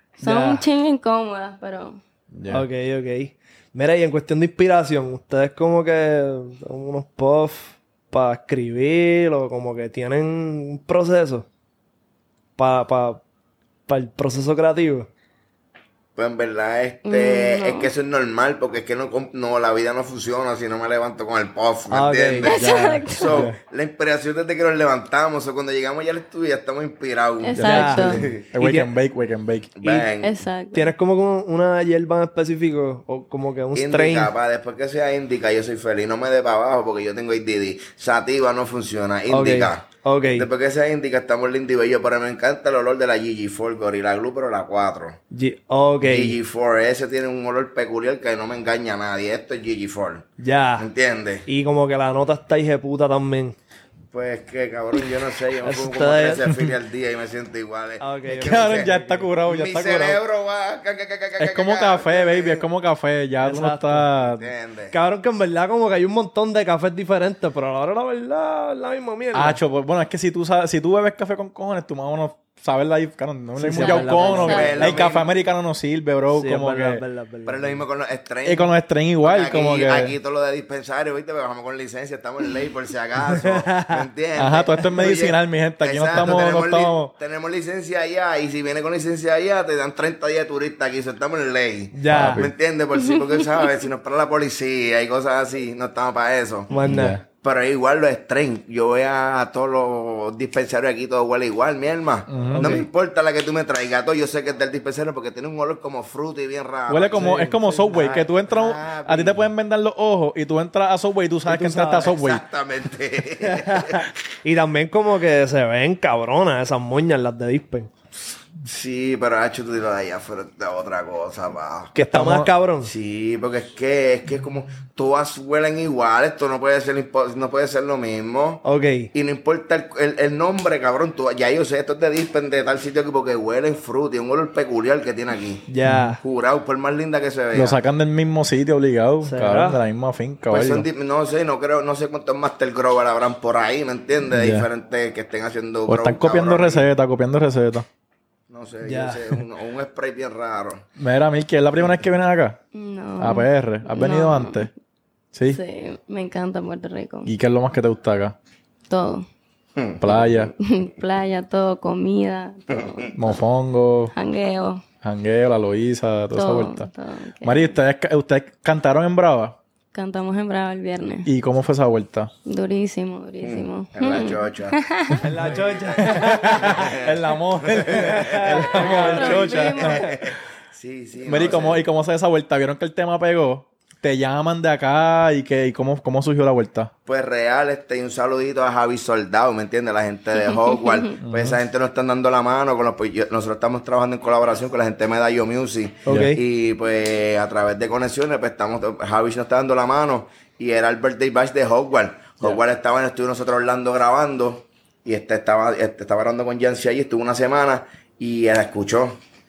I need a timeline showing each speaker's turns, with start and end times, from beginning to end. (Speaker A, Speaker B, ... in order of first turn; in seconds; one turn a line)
Speaker A: 0.2-2.0
Speaker B: 0.2-0.6
Speaker C: 2.3-2.6
Speaker B: 2.5-11.5
Speaker B: 12.6-13.2
Speaker B: 13.9-15.1
Speaker D: 16.2-28.4
Speaker A: 17.1-17.9
Speaker B: 21.9-23.1
Speaker A: 22.5-23.5
Speaker C: 23.2-23.6
Speaker A: 27.4-28.2
Speaker C: 27.6-29.8
Speaker B: 27.6-28.9
Speaker D: 29.8-30.4
Speaker A: 29.8-30.9
Speaker B: 30.7-34.3
Speaker D: 33.8-45.2
Speaker B: 39.3-40.5
Speaker B: 45.3-46.4
Speaker D: 46.0-51.5
Speaker B: 50.4-50.9
Speaker B: 51.5-53.6
Speaker D: 54.1-62.6
Speaker B: 55.6-56.5
Speaker B: 58.0-59.3
Speaker C: 58.3-60.2
Speaker C: 61.4-64.5
Speaker B: 63.4-64.1
Speaker D: 64.2-65.0
Speaker B: 64.9-69.6
Speaker C: 69.3-77.0
Speaker B: 73.6-75.1
Speaker A: 73.7-75.0
Speaker D: 74.4-75.3
Speaker B: 76.3-77.8
Speaker D: 77.5-109.5
Speaker C: 78.4-80.2
Speaker B: 83.3-84.0
Speaker C: 84.4-87.1
Speaker B: 91.9-92.5
Speaker C: 92.1-92.5
Speaker A: 93.2-93.7
Speaker B: 96.7-97.2
Speaker C: 96.8-97.2
Speaker C: 102.3-102.8
Speaker B: 102.5-102.9
Speaker C: 106.9-112.4
Speaker B: 107.2-107.5
Speaker B: 111.5-112.2
Speaker D: 112.0-114.1
Speaker B: 113.4-117.9
Speaker D: 118.6-121.9
Speaker B: 121.9-122.9
Speaker C: 122.0-122.5
Speaker D: 122.8-135.7
Speaker B: 128.6-129.1
Speaker B: 135.7-136.2
Speaker C: 135.8-136.2
Speaker D: 136.2-137.8
Speaker C: 137.5-140.9
Speaker B: 139.2-139.8
Speaker D: 140.5-146.9
Speaker C: 144.3-144.7
Speaker C: 145.9-147.9
Speaker D: 148.5-150.8
Speaker B: 148.8-149.4
Speaker C: 151.0-152.6
Speaker A: 152.7-154.7
Speaker C: 153.2-154.7
Speaker C: 155.3-155.6
Speaker A: 155.5-157.3
Speaker C: 157.3-158.4
Speaker A: 158.9-159.3
Speaker D: 159.8-160.4
Speaker C: 160.0-160.5
Speaker A: 160.6-163.4
Speaker D: 162.8-163.1
Speaker C: 163.2-164.1
Speaker A: 164.1-164.8
Speaker C: 165.0-166.9
Speaker A: 166.3-167.8
Speaker C: 167.4-169.6
Speaker A: 169.9-171.3
Speaker C: 171.2-172.3
Speaker A: 172.4-175.2
Speaker D: 173.4-174.8
Speaker B: 175.2-177.0
Speaker D: 175.4-181.8
Speaker C: 176.0-180.2
Speaker B: 177.9-179.7
Speaker A: 178.8-180.1
Speaker C: 181.2-186.9
Speaker D: 187.1-209.2
Speaker C: 191.2-191.6
Speaker C: 196.1-196.3
Speaker B: 196.1-196.4